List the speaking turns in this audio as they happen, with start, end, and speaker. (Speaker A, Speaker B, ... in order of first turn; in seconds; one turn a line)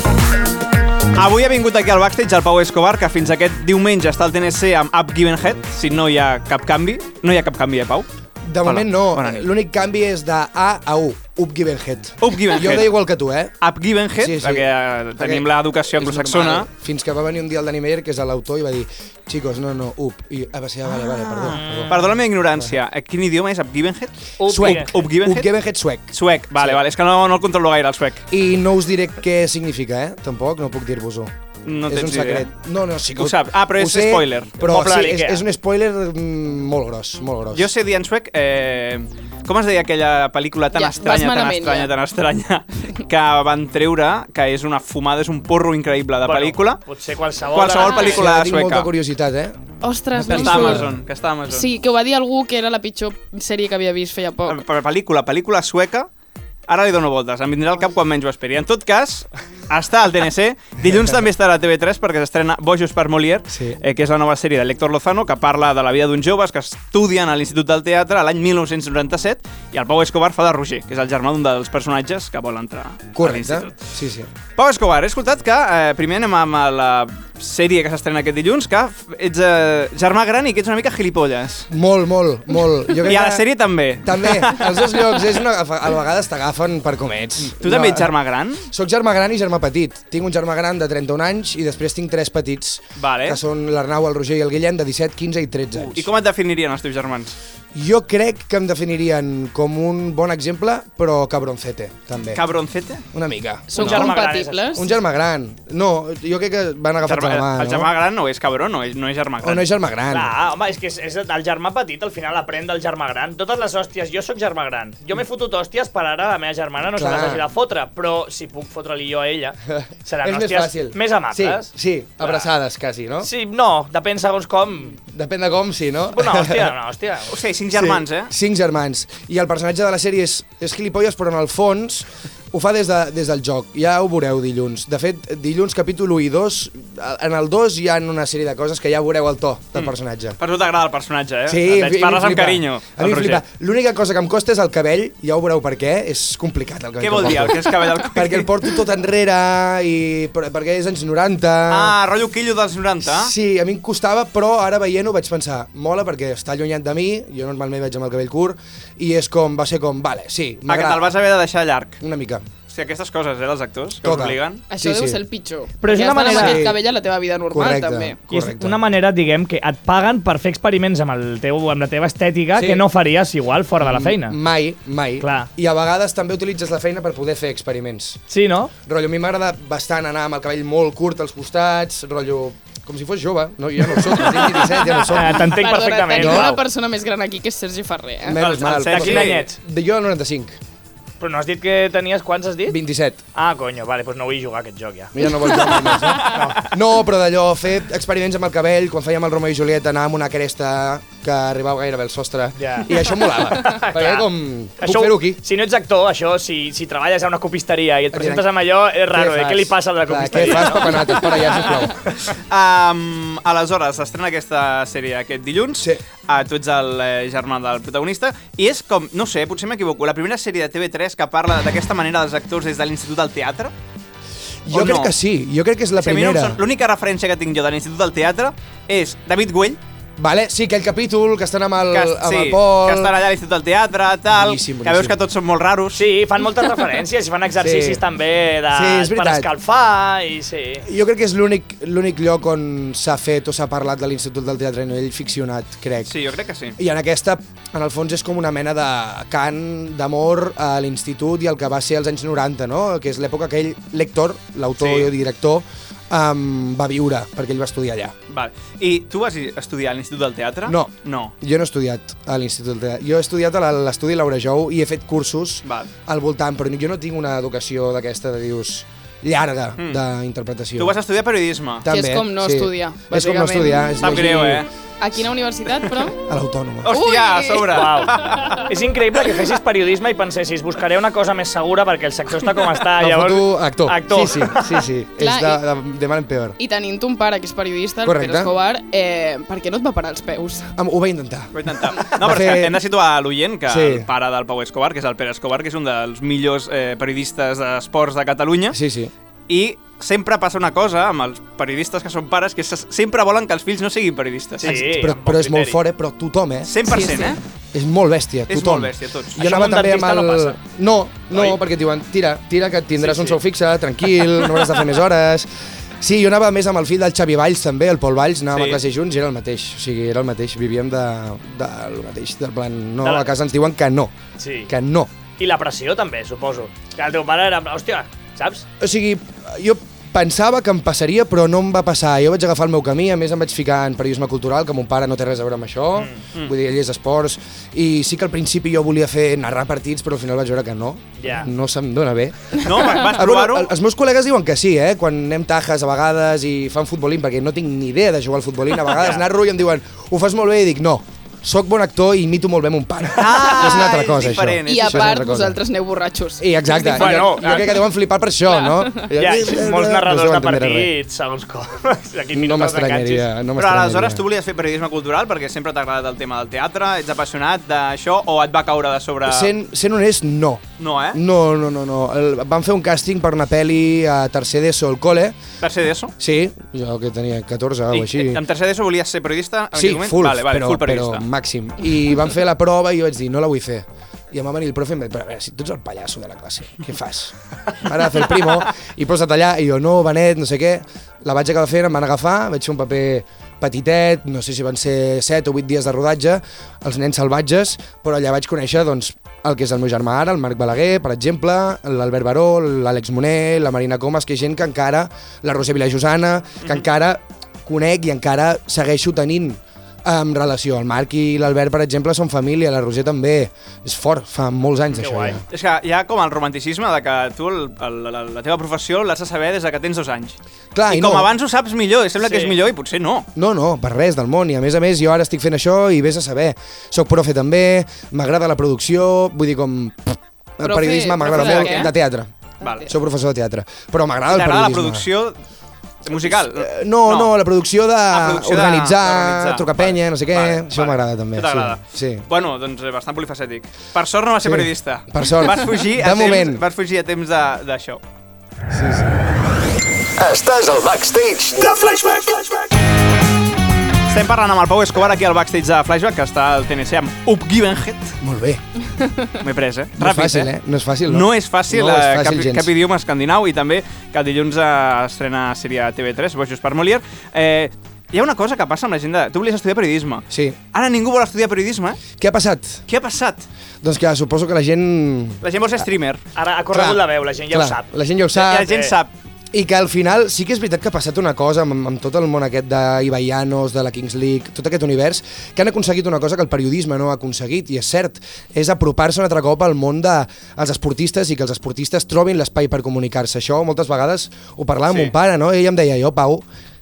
Speaker A: 1.1-8.1
Speaker B: 8.5-13.5
Speaker A: 8.6-9.5
Speaker A: 12.2-12.9
Speaker A: 13.6-16.7
Speaker B: 14.2-21.9
Speaker A: 21.0-25.5
Speaker C: 21.5-22.2
Speaker C: 24.4-25.0
Speaker B: 24.4-26.8
Speaker A: 26.1-28.2
Speaker B: 28.3-31.3
Speaker A: 31.6-32.5
Speaker B: 31.9-37.7
Speaker A: 33.2-34.8
Speaker C: 34.6-35.4
Speaker A: 37.5-46.8
Speaker D: 40.7-41.9
Speaker C: 46.2-48.2
Speaker A: 47.5-48.9
Speaker D: 47.8-48.2
Speaker B: 48.0-49.6
Speaker D: 49.8-50.9
Speaker B: 50.1-50.9
Speaker A: 50.2-51.7
Speaker D: 51.5-54.6
Speaker A: 54.5-56.1
Speaker A: 56.7-73.8
Speaker B: 63.5-63.8
Speaker B: 73.1-74.3
Speaker A: 74.5-81.7
Speaker B: 81.7-83.5
Speaker A: 83.0-85.3
Speaker B: 84.0-88.1
Speaker A: 87.4-88.7
Speaker B: 88.7-96.1
Speaker A: 93.0-93.4
Speaker A: 95.8-97.3
Speaker B: 97.7-102.4
Speaker A: 102.3-103.0
Speaker B: 103.1-104.2
Speaker D: 103.7-104.9
Speaker C: 103.7-104.8
Speaker B: 104.7-107.9
Speaker A: 107.0-109.6
Speaker B: 109.4-110.3
Speaker C: 110.1-121.7
Speaker B: 116.9-117.5
Speaker B: 119.7-123.3
Speaker C: 123.2-125.0
Speaker B: 125.1-126.8
Speaker C: 126.1-127.3
Speaker A: 127.3-128.3
Speaker B: 127.7-140.4
Speaker A: 139.7-143.4
Speaker B: 141.5-151.9
Speaker A: 147.0-148.6
Speaker A: 151.7-153.3
Speaker B: 153.1-161.1
Speaker A: 160.7-162.0
Speaker B: 162.0-162.4
Speaker A: 162.7-164.6
Speaker B: 164.0-165.2
Speaker D: 164.7-168.2
Speaker C: 165.8-166.6
Speaker B: 165.9-166.8
Speaker B: 167.5-168.8
Speaker C: 168.3-174.4
Speaker B: 172.6-172.8
Speaker B: 173.8-178.2
Speaker C: 175.2-175.5
Speaker C: 178.3-178.7
Speaker B: 178.8-185.4
Speaker C: 185.0-186.6
Speaker D: 185.3-188.4
Speaker B: 186.1-186.6
Speaker B: 188.2-190.6
Speaker A: 188.4-189.4
Speaker C: 188.9-189.6
Speaker C: 191.2-192.8
Speaker B: 192.7-193.2
Speaker C: 193.3-196.6
Speaker B: 195.1-205.4
Speaker D: 195.5-196.4
Speaker C: 202.6-211.7
Speaker B: 208.1-208.5
Speaker B: 209.1-212.0
Speaker A: 210.3-211.0
Speaker A: 212.3-223.7
Speaker B: 224.6-226.6
Speaker A: 224.7-225.1
Speaker A: 226.0-229.8
Speaker B: 230.2-233.1
Speaker A: 231.9-236.0
Speaker B: 234.3-235.2
Speaker C: 235.9-240.9
Speaker B: 237.6-238.0
Speaker B: 238.7-239.5
Speaker B: 240.8-246.1
Speaker A: 246.1-246.8
Speaker B: 246.8-258.1
Speaker A: 254.8-255.1
Speaker A: 258.3-261.3
Speaker B: 260.7-271.0
Speaker A: 265.6-265.9
Speaker A: 270.8-271.9
Speaker B: 271.8-274.7
Speaker D: 271.9-274.0
Speaker A: 274.0-274.7
Speaker D: 275.0-276.2
Speaker B: 276.2-276.9
Speaker A: 276.8-278.6
Speaker D: 276.9-278.6
Speaker C: 277.7-284.8
Speaker B: 283.0-286.6
Speaker D: 285.2-285.6
Speaker D: 286.6-290.7
Speaker B: 288.0-288.5
Speaker B: 290.7-292.8
Speaker A: 291.5-298.8
Speaker B: 293.7-294.1
Speaker B: 298.7-299.1
Speaker A: 299.5-304.7
Speaker C: 304.6-305.8
Speaker B: 304.6-315.5
Speaker A: 306.7-307.4
Speaker A: 308.5-309.4
Speaker C: 309.4-310.6
Speaker C: 313.0-313.4
Speaker B: 316.0-324.1
Speaker A: 318.5-318.8
Speaker C: 323.0-323.3
Speaker C: 324.4-324.7
Speaker B: 324.7-325.1
Speaker C: 325.4-328.6
Speaker B: 328.8-355.6
Speaker C: 341.2-341.5
Speaker A: 342.6-343.7
Speaker A: 353.1-355.3
Speaker D: 354.6-356.8
Speaker B: 356.4-360.9
Speaker C: 356.7-357.9
Speaker D: 358.6-358.9
Speaker C: 359.1-363.3
Speaker B: 362.3-364.2
Speaker A: 363.6-369.5
Speaker B: 369.2-375.4
Speaker A: 370.8-371.2
Speaker A: 375.6-376.1
Speaker B: 376.2-378.4
Speaker A: 377.9-381.2
Speaker B: 379.7-415.4
Speaker C: 414.9-415.4
Speaker A: 415.5-420.4
Speaker B: 420.7-421.3
Speaker A: 420.9-423.3
Speaker C: 422.2-422.5
Speaker B: 423.3-432.3
Speaker D: 430.6-431.9
Speaker A: 431.3-431.9
Speaker A: 432.6-432.9
Speaker D: 432.6-432.9
Speaker B: 432.9-435.1
Speaker A: 434.3-435.4
Speaker A: 436.0-437.3
Speaker B: 436.1-442.2
Speaker A: 438.1-448.0
Speaker B: 444.4-446.6
Speaker B: 448.7-449.2
Speaker E: 450.2-452.7
Speaker A: 454.1-458.2
Speaker B: 458.2-458.6
Speaker A: 459.4-460.5
Speaker B: 460.0-462.7
Speaker A: 461.1-472.0
Speaker B: 470.3-470.6
Speaker B: 472.2-472.8
Speaker A: 472.9-473.4
Speaker B: 473.8-475.4
Speaker A: 475.4-476.2
Speaker C: 476.3-477.9
Speaker B: 476.7-478.8
Speaker A: 478.3-479.1
Speaker C: 478.7-478.9
Speaker B: 479.5-496.4